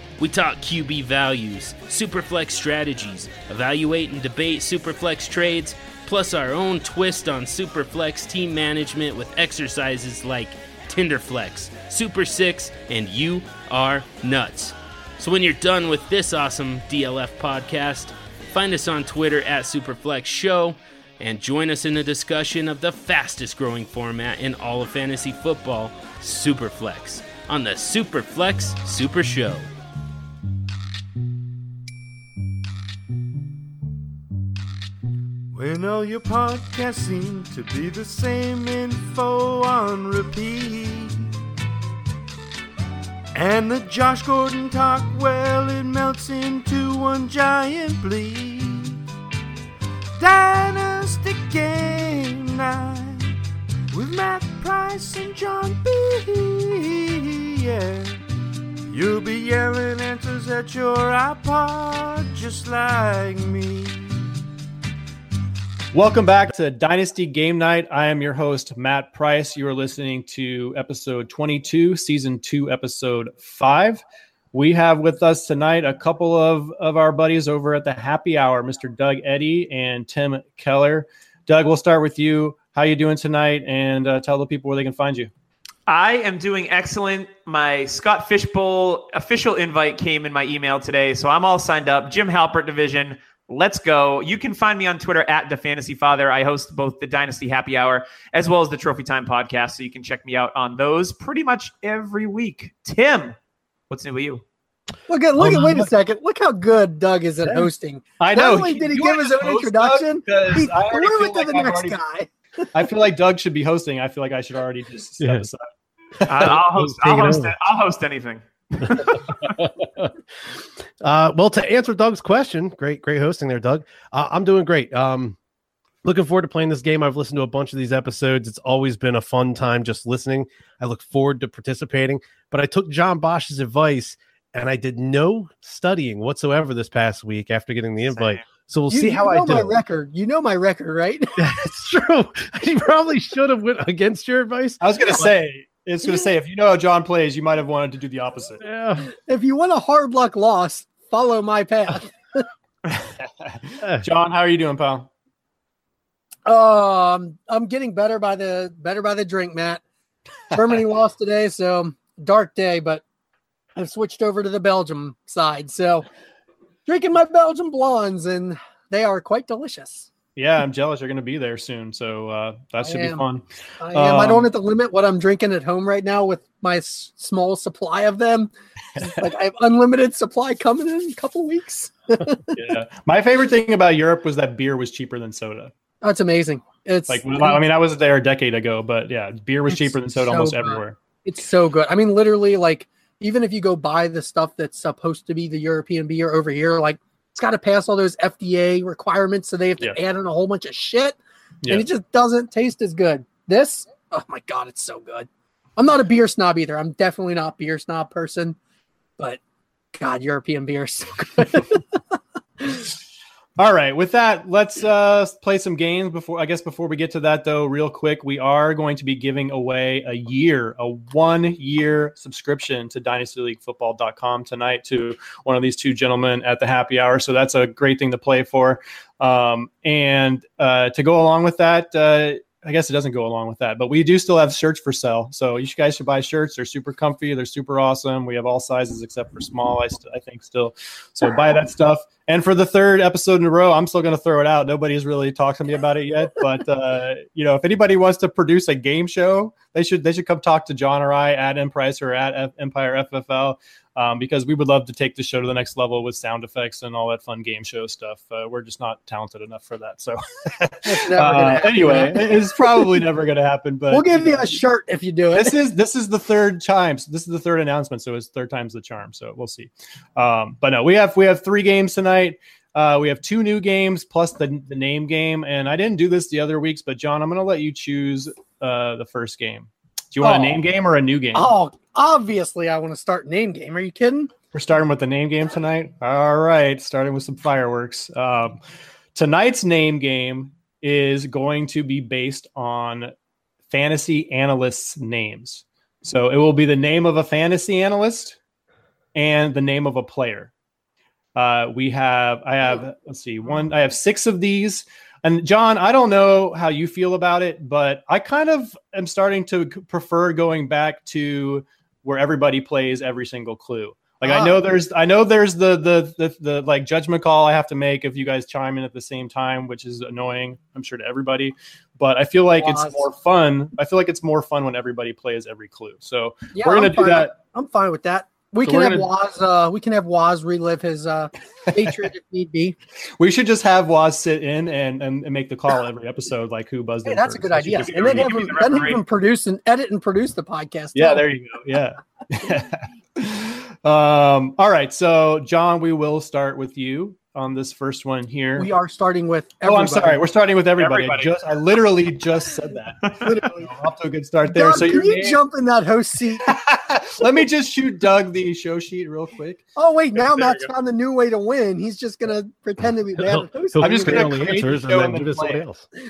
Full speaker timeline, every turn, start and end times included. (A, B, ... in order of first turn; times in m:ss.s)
0:00.2-0:29.6 A
0:35.5-0:41.2 B
0:43.3-0:49.0 B
0:50.2-0:53.3 B
0:53.9-0:58.2 B
0:58.9-1:04.2 B
1:05.9-1:14.0 C
1:14.5-1:25.3 C
1:25.9-1:43.4 D
1:43.9-1:44.4 D
1:45.1-1:52.7 E
1:45.4-1:45.9 F
1:48.2-1:52.0 C
1:52.7-1:55.6 C
1:55.2-1:55.4 F
1:56.2-1:56.6 C
1:56.2-1:59.6 D
1:56.4-1:57.5 F
1:58.8-2:00.1 F
2:01.0-2:05.4 F
2:06.0-2:19.7 F
2:18.1-2:18.4 D
2:18.9-2:21.3 E
2:21.4-2:25.3 F
2:24.8-2:28.6 C
2:26.0-2:26.3 E
2:28.6-2:29.1 F
2:29.1-2:32.4 E
2:34.0-2:35.1 C
2:36.4-2:39.8 E
2:40.5-2:43.0 E
2:43.8-2:46.1 E
2:46.8-2:50.1 E
2:50.4-2:54.5 C
2:52.8-2:53.2 E
2:53.8-3:02.6 E
3:02.5-3:05.7 C
3:06.0-3:07.6 E
3:07.1-3:11.0 C
3:09.7-3:21.2 E
3:21.7-3:28.6 E
3:29.9-3:31.8 E
3:33.6-4:24.4 C
4:20.8-4:23.0 E
4:23.9-4:25.6 E
4:25.3-4:41.5 C
4:40.2-4:40.6 E
4:41.3-4:44.3 E
4:44.5-4:48.6 C
4:49.1-4:53.1 C
4:53.7-4:58.4 C
4:59.1-5:00.5 C
5:01.3-5:27.3 C
5:14.2-5:14.6 E
5:22.6-5:23.0 E
5:26.5-5:32.8 E
5:28.6-5:29.1 C
5:33.2-5:39.0 C
5:37.0-5:41.2 E
5:37.9-5:39.0 D
5:40.9-5:48.7 C
5:48.6-5:50.2 E
5:49.6-5:55.4 C
5:50.8-5:51.3 D
5:53.2-5:53.7 E
5:54.5-5:56.5 E
5:56.4-6:00.7 C
5:59.8-6:04.6 E
6:03.2-6:05.8 F
6:03.8-6:05.6 C